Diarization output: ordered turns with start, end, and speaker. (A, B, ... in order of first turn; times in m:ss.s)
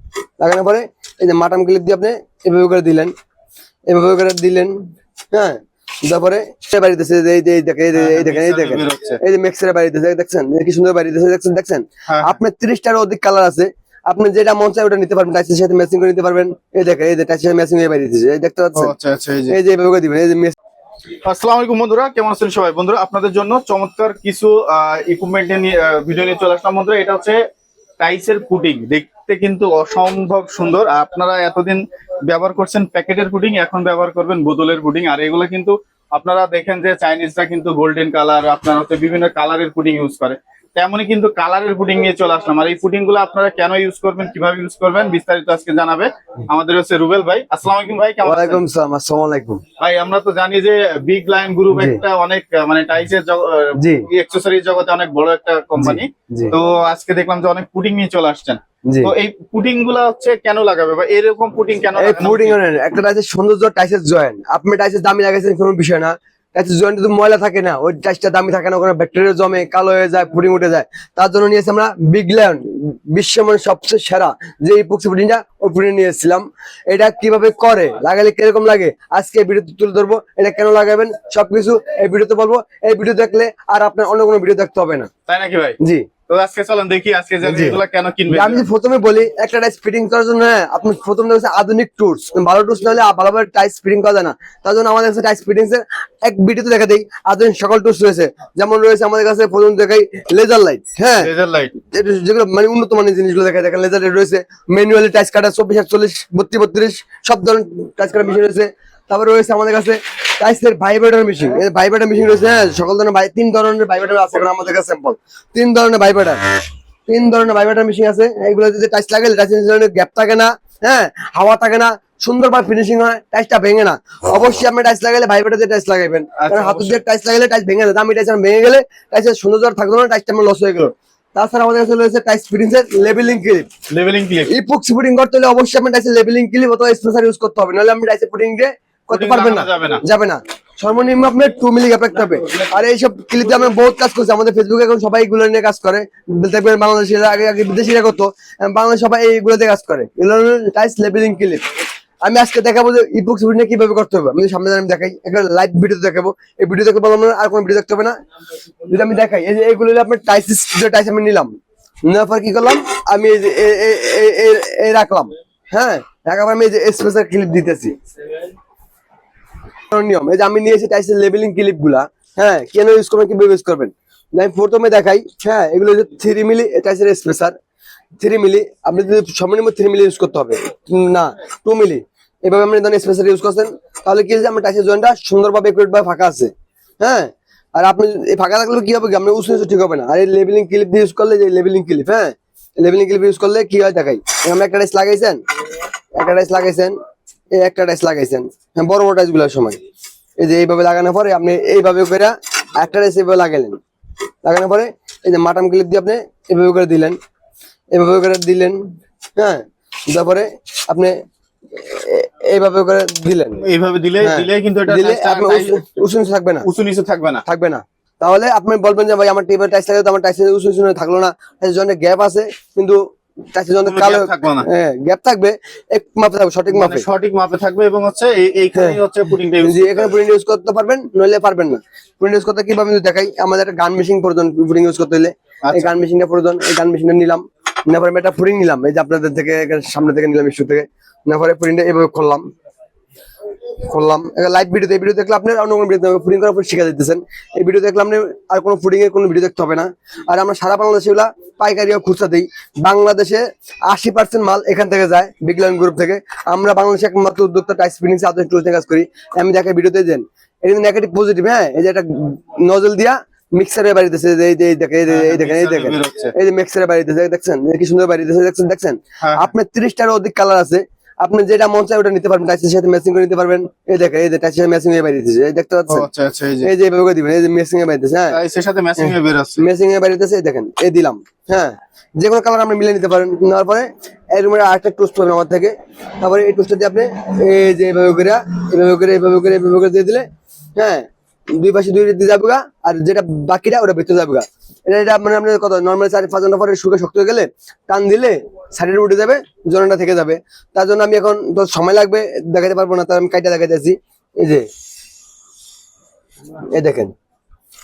0:00.4-0:03.1 A
0:03.9-0:04.8 A
0:05.3-0:18.9 A
0:08.0-0:09.2 B
0:12.1-0:12.4 B
0:18.8-0:19.6 B
0:19.5-0:20.6 A
0:21.2-0:27.4 B
0:28.0-0:48.6 B
0:48.2-0:49.6 A
0:49.8-1:02.6 B
0:51.7-0:52.0 A
0:53.8-0:54.0 A
0:55.8-0:56.5 A
0:58.9-0:59.1 A
1:02.0-1:25.1 A
1:25.3-1:25.8 B
1:25.8-1:26.1 A
1:26.3-1:28.7 B
1:27.4-1:56.4 A
1:41.2-1:41.7 B
1:57.1-2:13.7 A
2:06.4-2:07.0 B
2:13.9-2:14.5 B
2:14.5-2:31.6 A
2:19.1-2:20.0 B
2:32.2-2:38.1 A
2:38.9-2:41.5 A
2:42.0-2:48.0 A
2:49.9-2:57.6 A
2:58.2-3:15.4 A
3:16.1-3:17.0 A
3:17.6-3:19.8 A
3:20.4-3:23.8 A
3:24.4-3:27.2 A
3:27.9-3:28.8 A
3:29.4-3:31.1 A
3:31.7-3:33.6 A
3:33.6-3:35.8 B
3:34.2-3:36.7 A
3:36.6-3:37.4 B
3:37.4-3:43.0 A
3:43.5-3:47.1 A
3:43.8-3:44.7 B
3:46.7-3:50.2 B
3:48.8-3:49.0 A
3:49.6-4:02.4 A
3:55.6-3:55.9 B
4:03.9-4:36.1 A
4:25.1-4:26.3 B
4:29.2-4:29.5 B
4:35.9-4:36.7 B
4:36.6-4:38.4 A
4:38.3-4:39.6 B
4:39.0-5:04.7 A
5:06.7-5:07.1 A